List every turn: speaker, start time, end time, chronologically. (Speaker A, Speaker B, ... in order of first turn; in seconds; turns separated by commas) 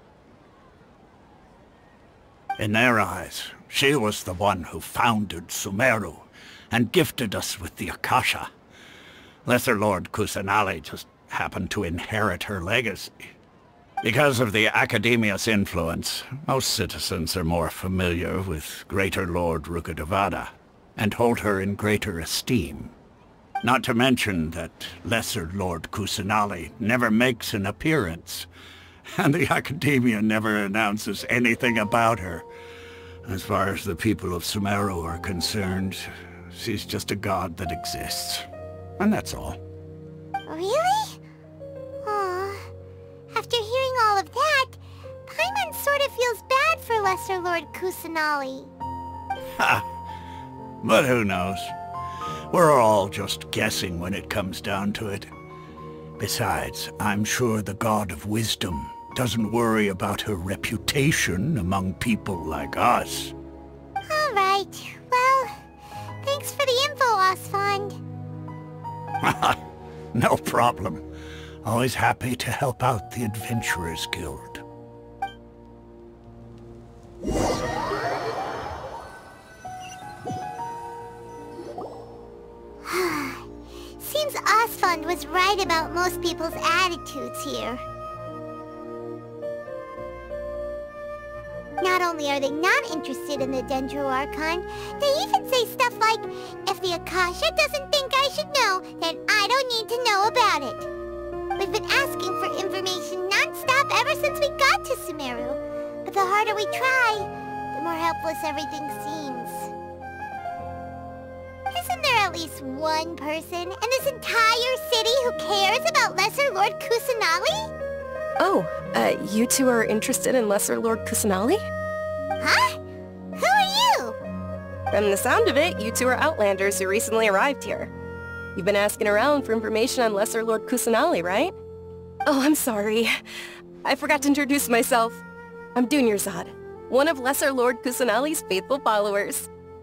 Speaker A: 2.6-8.5, Speaker A: 9.5-13.2, Speaker A: 14.0-22.9, Speaker A: 23.6-28.5, Speaker A: 29.1-32.5, Speaker A: 33.3-38.5, Speaker A: 39.0-39.6, Speaker B: 40.5-41.2, Speaker B: 42.0-42.7, Speaker B: 43.3-48.7, Speaker A: 49.6-49.9, Speaker A: 50.8-51.7, Speaker A: 52.5-55.3, Speaker A: 56.2-63.3, Speaker B: 64.1-65.6, Speaker B: 66.2-68.0, Speaker A: 69.2-69.6, Speaker A: 70.1-71.0, Speaker A: 71.6-74.6, Speaker B: 82.8-83.5, Speaker B: 84.0-87.8, Speaker B: 91.8-100.9, Speaker B: 101.6-109.7, Speaker B: 111.7-117.7, Speaker C: 118.4-121.6, Speaker B: 122.4-122.8, Speaker B: 123.4-124.2, Speaker C: 124.9-127.9, Speaker C: 128.6-131.6, Speaker C: 132.3-133.2, Speaker C: 133.8-135.2, Speaker C: 135.8-139.5